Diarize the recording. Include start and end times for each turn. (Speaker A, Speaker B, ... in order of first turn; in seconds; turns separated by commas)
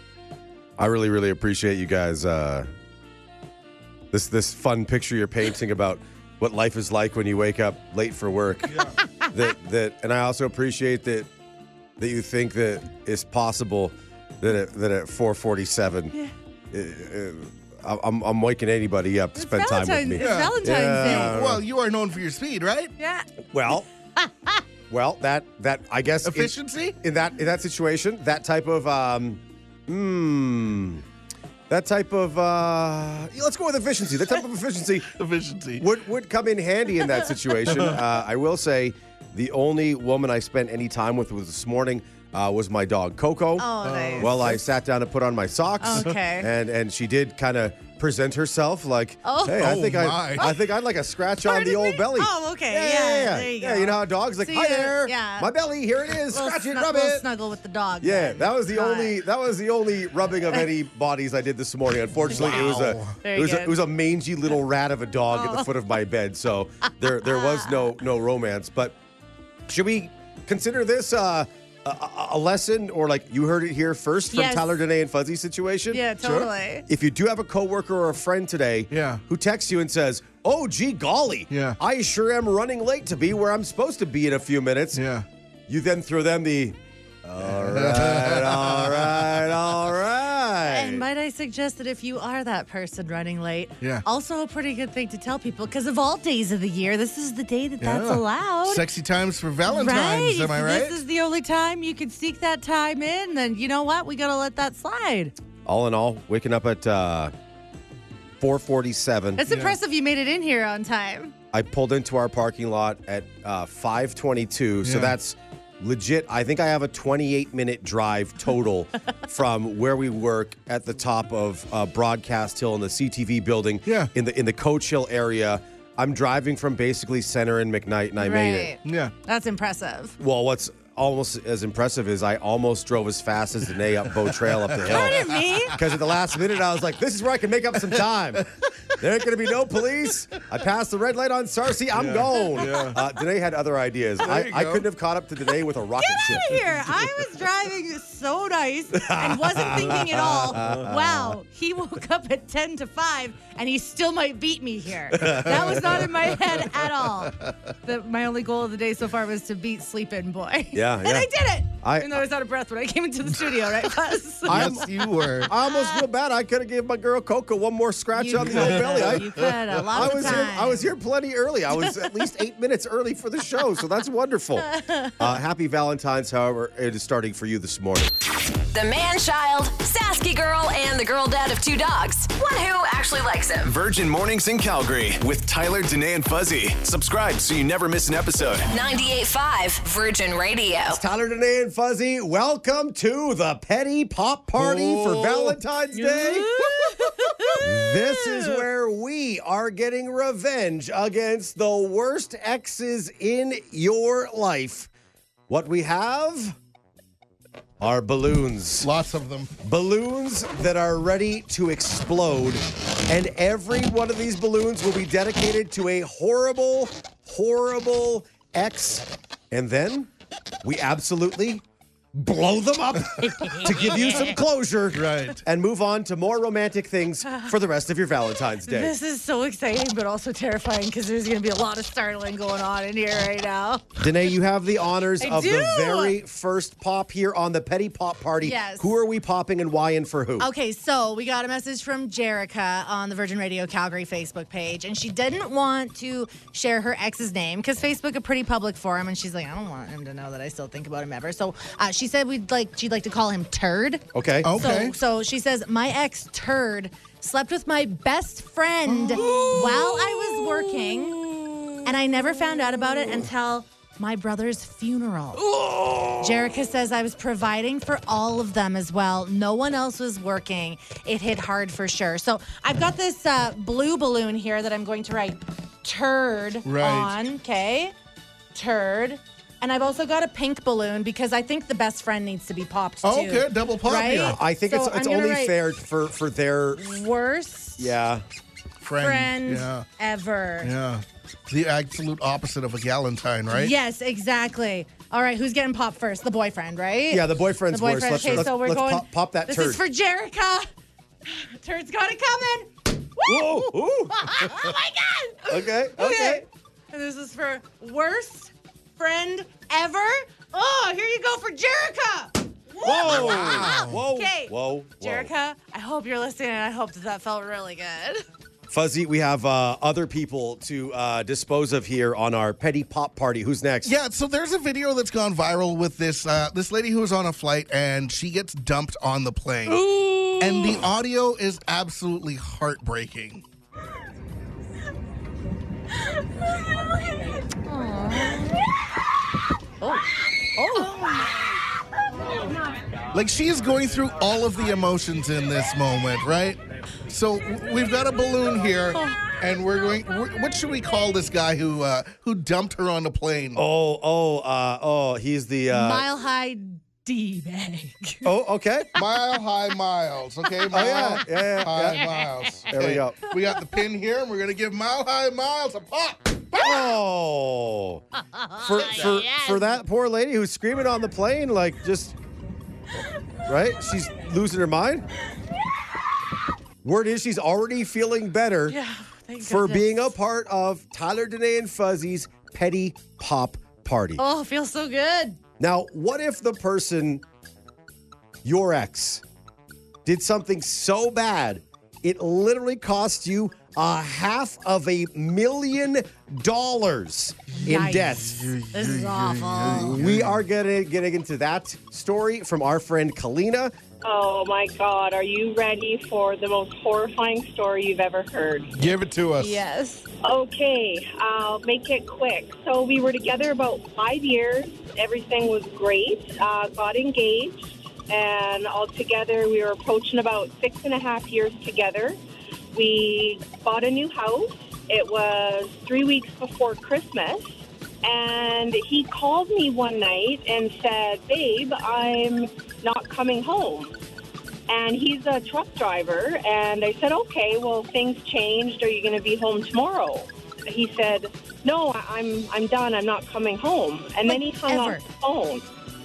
Speaker A: 0.8-2.7, Speaker A: 4.1-11.3, Speaker B: 8.7-9.0, Speaker A: 12.0-16.1, Speaker A: 16.7-21.6, Speaker C: 19.4-21.4, Speaker B: 20.2-22.9, Speaker C: 23.0-23.3, Speaker A: 23.5-23.9, Speaker C: 24.2-24.6, Speaker A: 24.9-31.1, Speaker B: 26.2-27.0, Speaker A: 31.7-35.1, Speaker B: 35.1-35.9, Speaker A: 35.8-57.2, Speaker B: 37.7-38.0, Speaker C: 43.6-44.3, Speaker B: 43.8-44.6, Speaker C: 45.8-46.5, Speaker C: 49.2-49.7, Speaker B: 49.5-50.5, Speaker C: 50.4-50.7, Speaker C: 51.4-55.5, Speaker C: 56.3-59.2, Speaker A: 58.0-69.0, Speaker B: 62.3-63.2, Speaker C: 63.2-63.8, Speaker C: 65.3-65.9, Speaker C: 67.0-67.9, Speaker A: 69.7-76.0, Speaker C: 74.3-74.8, Speaker C: 75.9-76.8, Speaker B: 76.2-76.5, Speaker A: 76.9-85.0, Speaker B: 78.9-79.2, Speaker B: 81.5-81.8, Speaker B: 84.9-85.3, Speaker A: 85.7-91.1, Speaker B: 87.4-89.5, Speaker C: 90.6-98.8, Speaker B: 97.8-101.0, Speaker C: 99.7-105.3, Speaker A: 105.7-107.3, Speaker A: 108.4-109.4, Speaker C: 109.4-111.3, Speaker B: 109.5-109.8, Speaker A: 111.5-128.7, Speaker B: 114.8-115.2, Speaker B: 123.9-124.1, Speaker C: 128.2-130.2, Speaker B: 128.8-129.1, Speaker A: 130.2-146.6, Speaker B: 134.2-135.8, Speaker C: 134.8-135.8, Speaker B: 137.8-139.0, Speaker B: 139.5-140.4, Speaker B: 141.9-143.0, Speaker B: 144.2-144.9, Speaker C: 146.0-164.9, Speaker A: 148.9-151.3, Speaker B: 150.4-150.9, Speaker A: 155.1-156.1, Speaker B: 155.3-157.5, Speaker A: 160.7-161.3, Speaker A: 161.8-162.2, Speaker B: 163.5-163.9, Speaker B: 164.5-165.5, Speaker A: 164.5-164.9, Speaker A: 165.4-178.1, Speaker C: 165.6-166.1, Speaker C: 168.2-170.9, Speaker B: 168.4-170.5, Speaker C: 171.8-172.2, Speaker C: 174.7-175.3, Speaker D: 178.7-183.8, Speaker E: 183.7-188.7, Speaker D: 188.7-191.0, Speaker A: 190.9-196.5, Speaker B: 194.5-195.6, Speaker C: 195.9-198.6, Speaker B: 196.5-197.6, Speaker A: 197.6-204.9, Speaker A: 205.5-206.6, Speaker A: 207.8-208.9, Speaker B: 208.8-209.5, Speaker A: 209.6-220.1, Speaker A: 220.6-228.9, Speaker C: 223.2-224.4, Speaker B: 224.9-225.4, Speaker C: 227.3-227.5, Speaker C: 228.7-233.9, Speaker A: 234.0-240.5, Speaker C: 235.2-236.2, Speaker C: 238.4-238.9, Speaker C: 240.4-265.6, Speaker A: 254.1-254.8, Speaker B: 254.4-255.0, Speaker B: 258.9-261.0, Speaker A: 265.6-266.5, Speaker C: 266.2-277.9, Speaker B: 276.6-277.1, Speaker C: 278.6-285.6, Speaker B: 283.0-284.4, Speaker A: 284.3-287.1, Speaker C: 286.8-287.9, Speaker A: 287.8-288.2, Speaker B: 288.8-289.9, Speaker C: 289.0-290.7, Speaker B: 290.6-293.8, Speaker C: 293.5-300.7, Speaker A: 297.1-299.8, Speaker C: 301.2-318.2, Speaker A: 303.2-304.5, Speaker A: 305.5-306.4, Speaker A: 312.8-315.3, Speaker B: 313.0-314.0, Speaker A: 318.7-323.9, Speaker B: 323.8-329.9, Speaker C: 329.7-330.9, Speaker B: 330.4-333.4, Speaker C: 336.1-338.7, Speaker C: 339.8-341.5, Speaker B: 343.1-353.6, Speaker C: 348.9-349.4, Speaker A: 353.6-356.1, Speaker C: 355.7-358.3, Speaker A: 358.2-358.9, Speaker B: 358.9-366.7, Speaker C: 360.5-362.4, Speaker A: 360.7-363.2, Speaker A: 366.6-372.1, Speaker C: 368.3-369.8, Speaker A: 373.5-375.1, Speaker A: 376.8-378.8, Speaker C: 378.7-380.1, Speaker A: 379.4-384.2, Speaker C: 384.2-385.4, Speaker A: 385.6-387.2, Speaker A: 388.4-389.2, Speaker A: 390.1-398.5, Speaker C: 397.6-400.0, Speaker B: 398.2-400.4, Speaker A: 399.7-403.7, Speaker F: 404.0-408.7, Speaker B: 408.7-409.6, Speaker C: 409.4-410.1, Speaker F: 410.2-422.2, Speaker F: 422.7-433.9, Speaker F: 434.7-445.6, Speaker C: 444.3-445.1